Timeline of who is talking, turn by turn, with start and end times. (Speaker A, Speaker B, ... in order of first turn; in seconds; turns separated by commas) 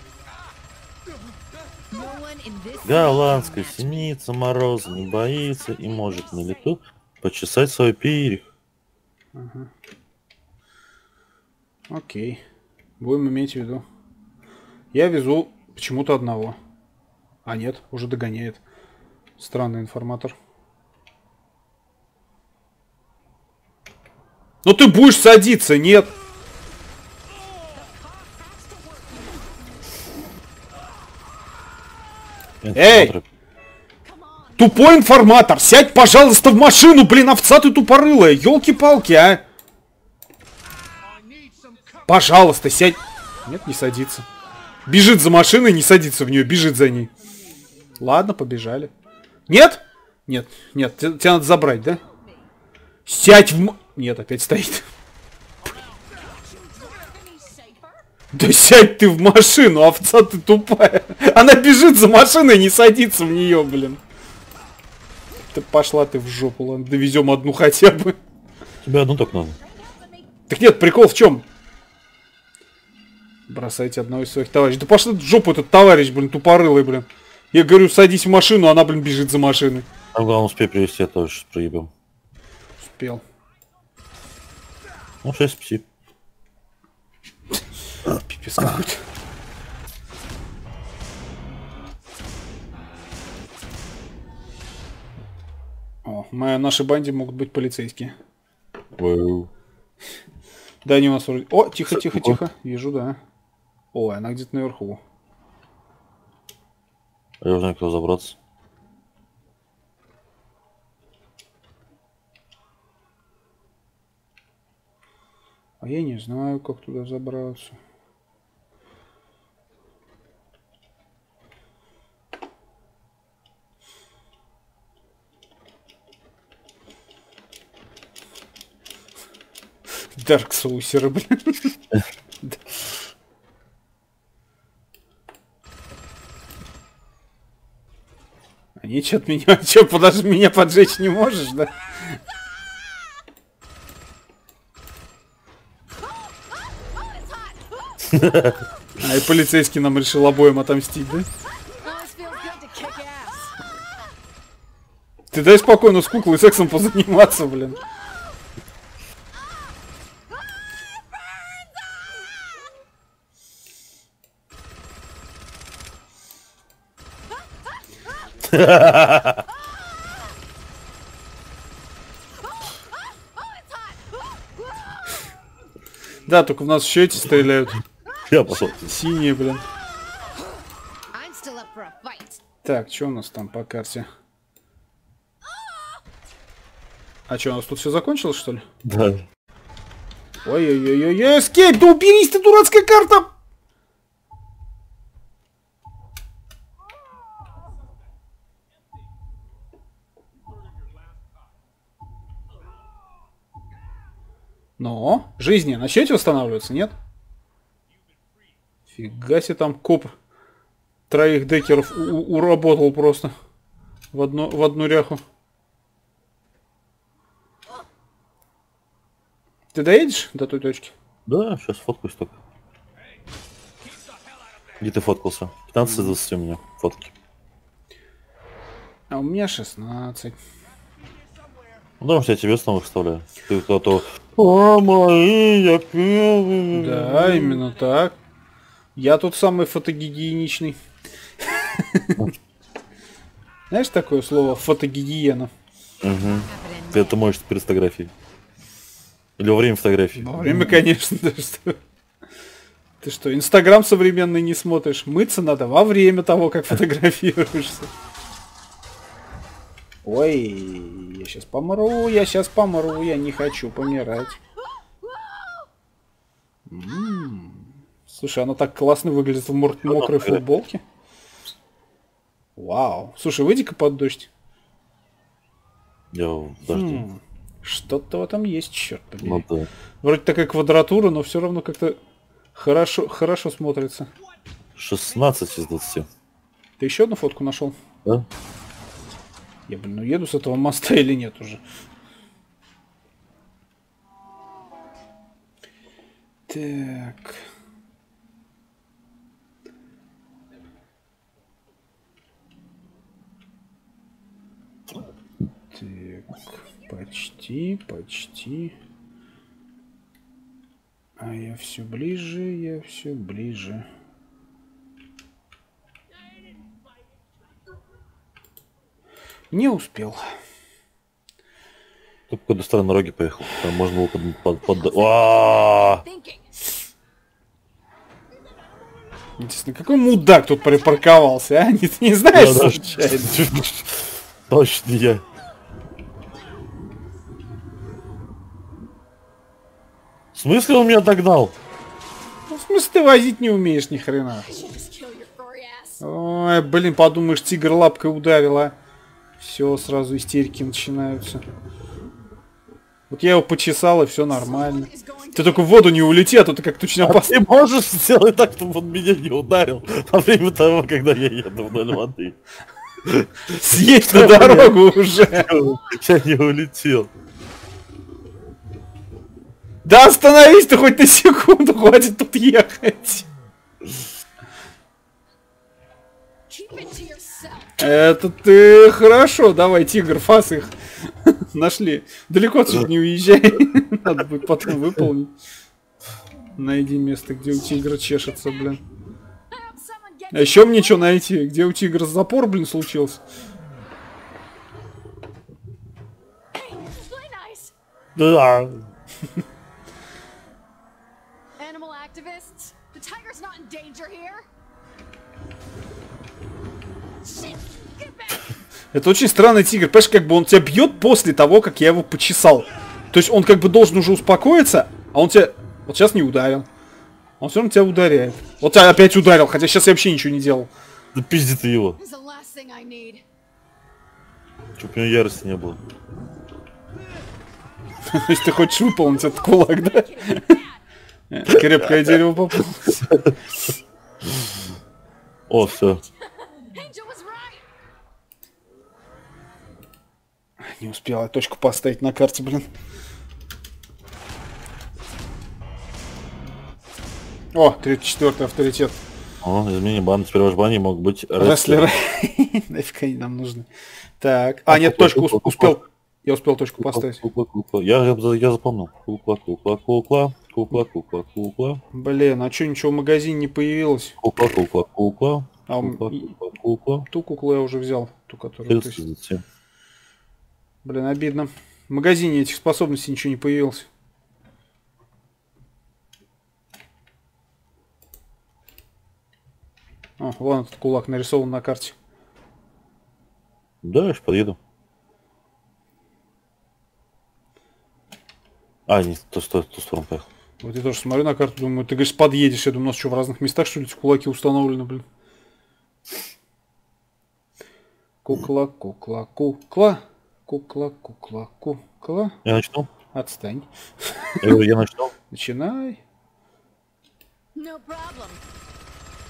Speaker A: 1.9-4.1, Speaker B: 2.8-8.5, Speaker A: 5.8-6.5, Speaker C: 9.3-9.7, Speaker C: 11.9-12.4, Speaker C: 13.0-13.8, Speaker C: 14.9-16.6, Speaker C: 17.4-18.6, Speaker C: 19.4-20.4, Speaker C: 24.6-26.1, Speaker A: 27.6-29.6, Speaker B: 32.6-33.2, Speaker C: 32.8-33.1, Speaker A: 34.0-34.8, Speaker C: 34.6-39.4, Speaker C: 42.1-44.3, Speaker C: 44.9-47.1, Speaker C: 48.0-48.9, Speaker C: 49.5-52.0, Speaker C: 53.1-54.9, Speaker A: 56.1-58.0, Speaker C: 58.3-64.0, Speaker C: 65.5-68.2, Speaker B: 68.8-69.6, Speaker A: 69.6-70.3, Speaker C: 70.5-71.5, Speaker C: 73.5-79.9, Speaker B: 80.1-81.9, Speaker C: 82.8-83.2, Speaker B: 85.2-85.9, Speaker C: 88.1-89.0, Speaker C: 96.0-98.2, Speaker B: 98.9-99.5, Speaker C: 100.8-103.2, Speaker B: 101.9-102.4, Speaker C: 103.9-105.0, Speaker B: 107.4-108.4, Speaker C: 115.8-117.8, Speaker C: 130.2-131.7, Speaker C: 138.8-142.2, Speaker A: 146.8-148.0, Speaker B: 148.1-148.6, Speaker C: 149.0-151.3, Speaker A: 151.8-153.6, Speaker C: 155.3-157.8, Speaker B: 168.4-169.4, Speaker A: 173.2-174.2, Speaker C: 176.3-177.8, Speaker B: 178.3-179.0, Speaker C: 178.7-179.6, Speaker A: 181.1-182.4, Speaker C: 182.6-184.1, Speaker C: 187.3-188.7, Speaker B: 188.8-189.3, Speaker C: 190.4-193.3, Speaker C: 204.8-207.0, Speaker C: 208.9-210.1, Speaker C: 211.1-213.3, Speaker C: 214.1-215.2, Speaker C: 219.7-220.9, Speaker B: 221.3-222.4, Speaker B: 224.8-227.1, Speaker C: 225.8-226.2, Speaker C: 229.1-230.4, Speaker B: 232.0-237.6, Speaker C: 236.7-238.2, Speaker C: 239.0-240.8, Speaker C: 241.4-242.3, Speaker C: 243.7-245.5, Speaker B: 246.0-248.1, Speaker A: 246.3-247.3, Speaker B: 249.4-250.8, Speaker C: 250.2-251.8, Speaker C: 253.0-257.9, Speaker C: 260.1-264.4, Speaker A: 265.0-265.7, Speaker C: 266.7-270.8, Speaker B: 269.9-270.4, Speaker C: 272.6-274.3, Speaker B: 276.1-277.1, Speaker C: 276.7-279.5, Speaker B: 279.2-279.7, Speaker C: 280.0-282.0, Speaker C: 282.6-284.1, Speaker B: 284.8-286.1, Speaker C: 286.8-287.8, Speaker C: 289.7-291.6, Speaker C: 296.5-297.4, Speaker C: 305.7-308.7, Speaker C: 311.2-313.9, Speaker C: 319.5-320.2, Speaker B: 322.3-326.0, Speaker A: 324.8-326.6, Speaker C: 329.4-333.4, Speaker B: 332.3-335.2, Speaker B: 340.3-341.6, Speaker C: 342.5-344.5, Speaker A: 344.5-346.0, Speaker C: 346.0-348.8, Speaker C: 349.4-351.4, Speaker C: 353.1-357.4, Speaker A: 354.3-355.9, Speaker B: 357.0-362.4, Speaker B: 363.0-367.1, Speaker C: 363.5-365.5, Speaker C: 369.9-373.3, Speaker A: 376.5-377.9, Speaker C: 377.8-380.7, Speaker C: 381.3-385.3, Speaker C: 386.6-388.8, Speaker A: 389.5-391.2, Speaker C: 390.3-393.2, Speaker A: 396.6-397.7, Speaker B: 398.2-398.9, Speaker A: 401.6-404.5, Speaker A: 407.2-408.5, Speaker C: 408.9-416.7, Speaker C: 417.4-420.7, Speaker B: 421.1-422.0, Speaker A: 422.0-423.2, Speaker B: 424.8-425.8, Speaker C: 428.1-430.6, Speaker A: 429.2-430.8, Speaker C: 431.3-433.1, Speaker B: 431.5-432.1, Speaker B: 433.0-433.4, Speaker B: 434.2-434.7, Speaker B: 435.5-436.0, Speaker A: 435.8-437.6, Speaker C: 440.6-442.7, Speaker C: 447.5-449.0, Speaker B: 449.4-451.9, Speaker C: 451.4-453.7, Speaker C: 454.2-457.2, Speaker B: 454.7-455.8, Speaker B: 456.8-461.8, Speaker C: 461.9-464.2, Speaker B: 464.2-467.1, Speaker C: 465.7-466.4, Speaker C: 467.1-469.0, Speaker B: 468.7-469.4, Speaker C: 470.8-473.9, Speaker C: 480.2-481.9, Speaker B: 483.8-484.6, Speaker B: 488.9-490.3, Speaker C: 490.6-495.1, Speaker C: 498.2-502.4, Speaker B: 502.4-502.9, Speaker C: 503.1-504.5, Speaker B: 504.4-505.1, Speaker C: 505.3-506.0, Speaker A: 507.6-508.4